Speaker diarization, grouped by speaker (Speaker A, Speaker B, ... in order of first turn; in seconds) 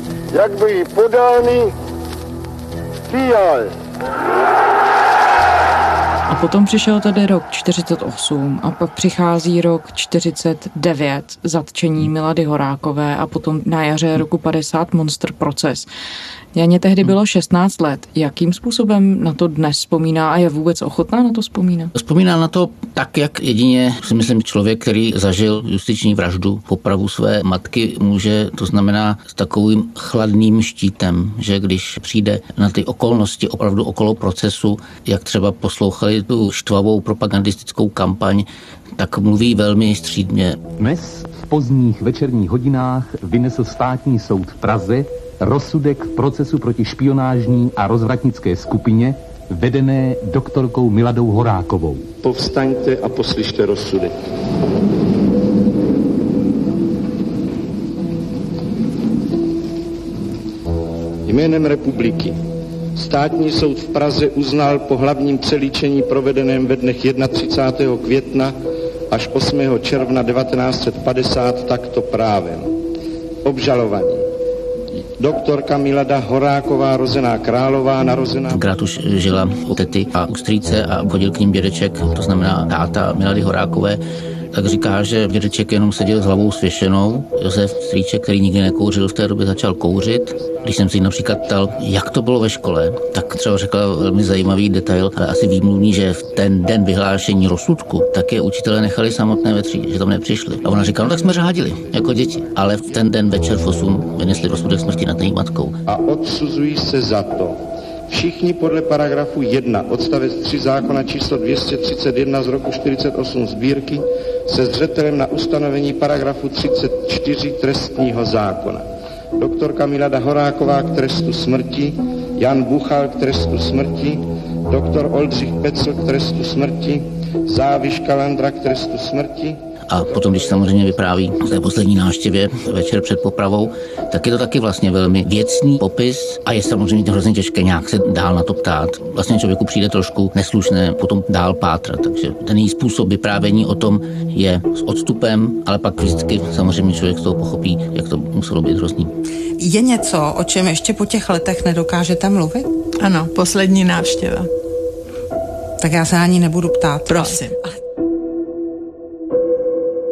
Speaker A: 0.3-1.7, 3.1-3.7
Speaker B: 6.3-15.9, 16.5-21.9
Speaker C: 21.9-38.5, 39.0-40.6, 78.5-84.0, 84.5-105.8, 129.9-149.1
Speaker D: 40.8-52.1
Speaker E: 52.2-54.1, 61.2-62.4, 63.0-68.5, 69.1-72.7, 73.4-74.3, 75.2-78.6, 105.9-129.6
Speaker F: 149.6-152.7, 155.8-157.4
Speaker G: 153.0-154.5, 157.1-157.6